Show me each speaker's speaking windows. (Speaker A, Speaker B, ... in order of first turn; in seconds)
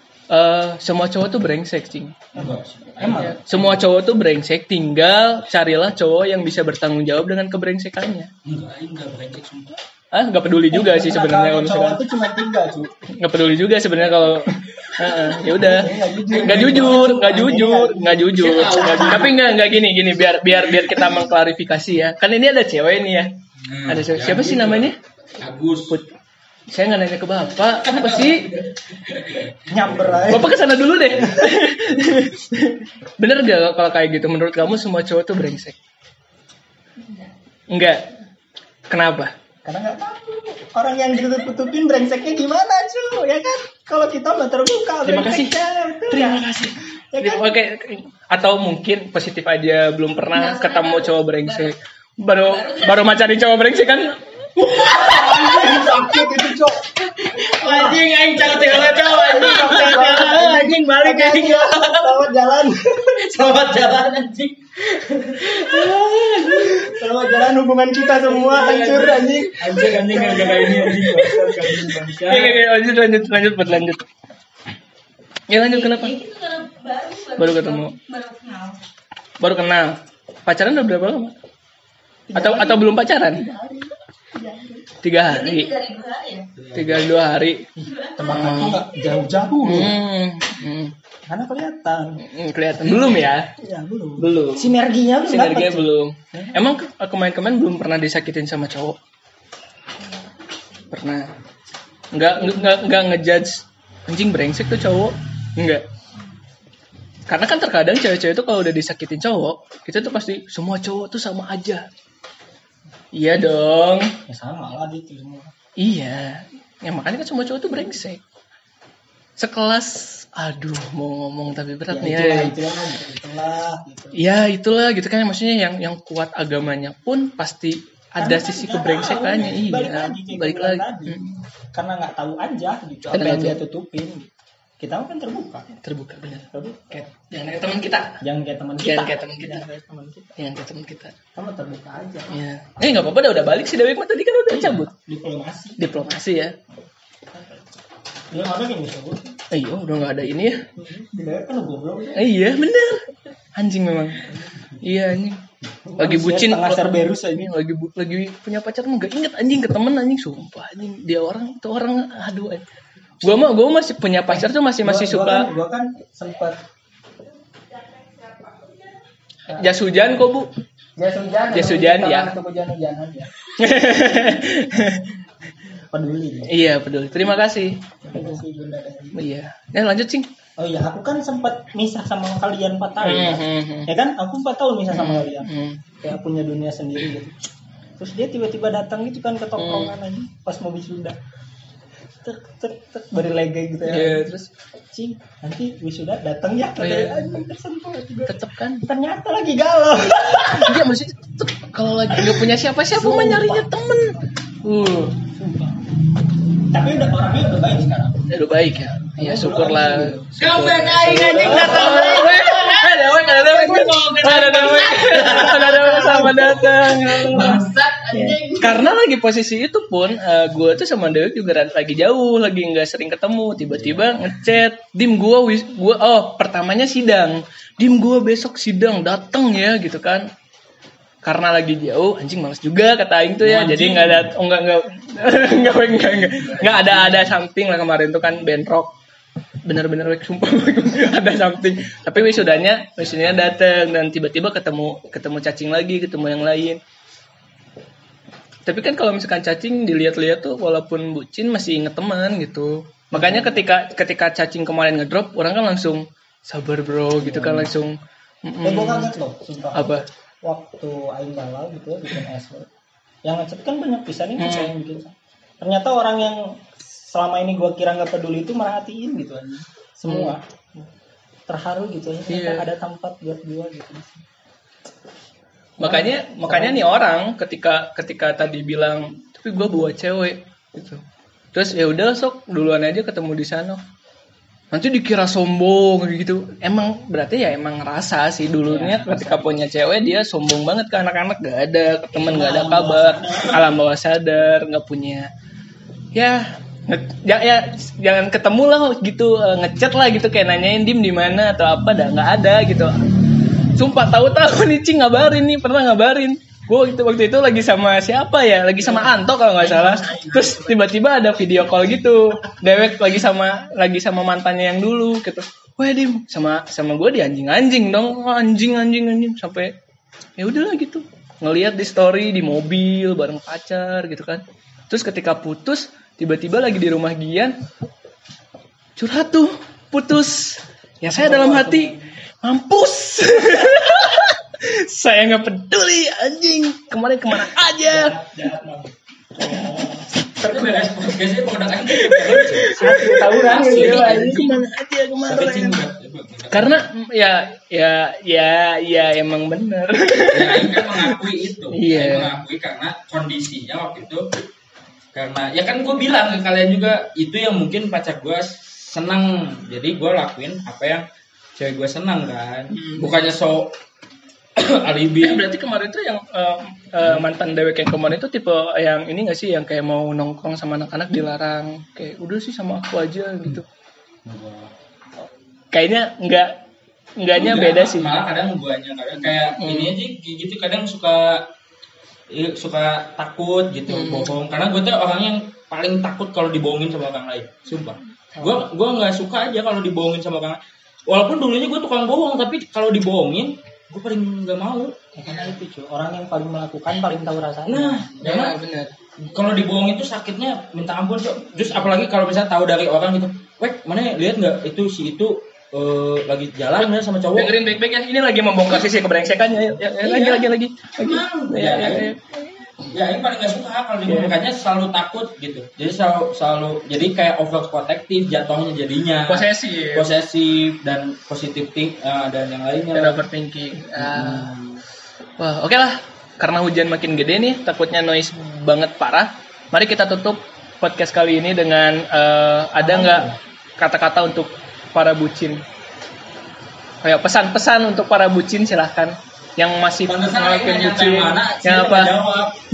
Speaker A: 0.3-2.2, 3.1-8.3, 10.1-12.0, 13.1-23.3, 23.9-24.9, 26.7-28.5, 30.3-35.8, 37.7-38.1, 38.9-39.3, 45.0-45.5, 46.1-54.2, 68.7-71.2, 72.3-74.0, 75.5-76.1, 77.3-78.0, 79.4-81.3, 82.3-83.4, 85.0-85.7, 86.7-87.7, 88.2-88.8, 89.6-90.9, 92.2-93.5, 94.2-94.7, 95.3-99.0, 100.9-101.3, 102.1-105.8, 107.3-111.9, 113.1-114.1, 115.8-118.2, 119.4-122.6, 124.1-131.4, 133.1-133.6, 135.7-138.2, 138.8-139.6, 140.4-141.1, 142.3-144.9, 145.8-146.5, 149.5-150.6, 152.1-155.4, 156.0-156.8, 157.4-162.6, 163.2-165.5, 169.5-170.5, 171.5-172.3, 173.6-175.1, 176.5-177.9, 179.1-180.3, 183.0-183.9, 184.9-185.8, 189.6-189.9, 193.8-194.5, 196.8-197.3, 198.3-198.8, 200.5-205.2, 208.3-217.6, 218.1-230.3, 231.2-238.9, 239.6-246.8, 248.7-259.1, 259.7-260.1, 264.4-264.7, 270.1-270.3, 272.3-272.7, 275.8-281.0, 281.5-283.8, 284.7-295.3, 296.1-303.0, 303.8-319.7, 320.4-327.6, 329.0-338.1, 340.4-340.9, 342.1-345.8, 346.5-351.1, 351.7-352.4, 362.7-363.1, 365.2-373.6, 375.7-376.6, 377.2-378.1, 379.6-379.9, 383.9-384.3, 398.2-398.9, 406.8-412.5, 414.1-414.3, 419.3-420.1, 422.9-424.5, 425.4-435.6, 437.0-442.1
Speaker B: 2.3-3.4, 10.7-12.9, 15.5-19.1, 29.7-30.6, 39.6-46.4, 47.1-47.6, 54.9-56.8, 57.4-58.0, 58.6-63.2, 66.7-71.5, 82.3-84.9, 88.1-90.0, 91.3-92.2, 93.5-96.5, 114.3-115.5, 121.9-124.2, 128.2-131.2, 131.7-135.7, 136.5-137.1, 138.2-140.3, 141.3-142.4, 144.9-145.8, 147.3-147.6, 148.3-149.4, 150.8-152.3, 155.8-157.5, 164.8-166.6, 170.9-173.3, 175.9-176.5, 178.0-179.2, 180.6-185.5, 186.0-187.4, 188.0-191.2, 192.2-194.3, 194.9-200.8, 202.1-203.8, 205.2-205.8, 206.7-208.3, 209.2-210.3, 211.2-212.3, 215.8-216.4, 253.1-253.5, 257.2-257.7, 258.6-262.7, 263.2-270.8, 271.5-274.2, 275.8-276.9, 288.6-289.6, 292.1-293.6, 331.1-332.1, 337.8-340.1, 342.7-344.6, 395.1-398.1, 432.8-433.4
Speaker C: 2.3-3.9, 8.4-9.8, 16.3-17.2, 18.3-19.4, 23.6-26.0, 27.8-30.3, 54.5-62.2, 63.1-67.0, 68.2-72.6, 86.5-87.1, 210.4-218.9, 233.4-234.3, 235.4-237.4, 243.0-243.5, 309.6-310.8, 340.4-344.5, 345.2-346.9, 350.3-354.3, 355.1-361.0, 361.6-363.7, 364.6-365.5, 374.2-374.7, 377.3-381.4, 382.3-394.9, 397.6-398.6, 399.2-407.5, 410.0-412.1, 412.9-423.2, 424.0-424.8, 440.1-442.6
Speaker D: 50.4-51.0, 52.5-52.9, 75.7-78.8, 85.2-86.5, 87.8-88.5, 100.1-100.6